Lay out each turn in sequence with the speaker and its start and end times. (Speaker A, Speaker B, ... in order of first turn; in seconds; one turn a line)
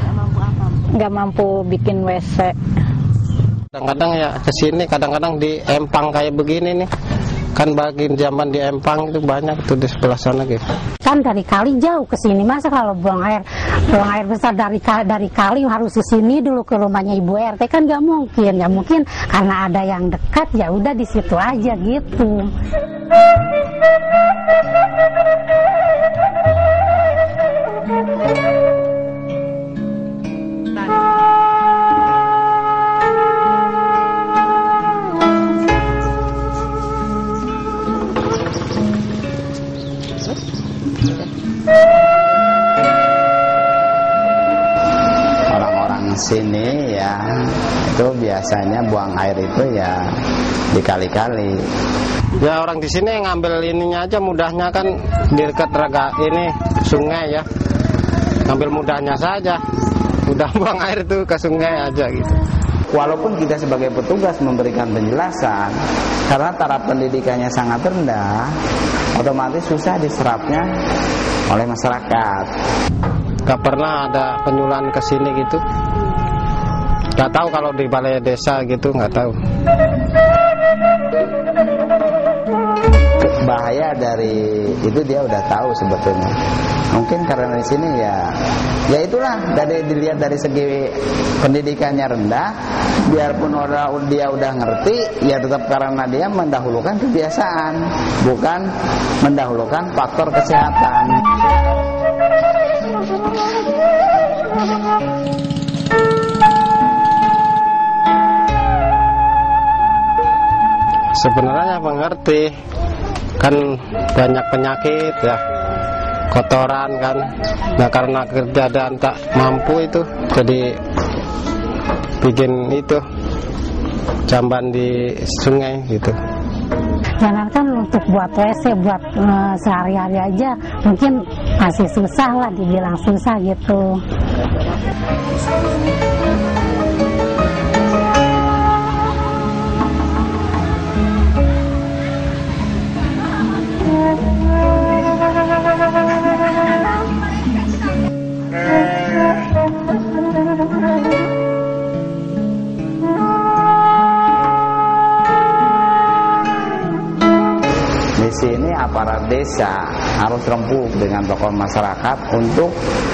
Speaker A: 0.3-2.5
Speaker B: 3.7-6.9
Speaker B: 7.5-10.6
Speaker C: 11.0-22.5
Speaker D: 45.5-50.1
Speaker D: 50.7-51.7
Speaker B: 52.4-57.5
Speaker B: 58.5-59.6
Speaker B: 60.3-62.4
Speaker D: 62.9-65.8
Speaker D: 66.3-68.5
Speaker D: 69.1-70.7
Speaker D: 71.5-72.5
Speaker B: 73.5-75.6
Speaker B: 77.2-79.3
Speaker D: 83.2-86.3
Speaker D: 86.9-88.3
Speaker D: 88.9-92.5
Speaker D: 93.0-98.7
Speaker D: 99.2-101.2
Speaker B: 111.1-112.5
Speaker B: 113.4-115.4
Speaker B: 116.3-117.2
Speaker B: 117.8-120.8
Speaker B: 122.2-123.0
Speaker B: 124.3-126.2
Speaker C: 127.2-134.0
Speaker D: 158.2-162.8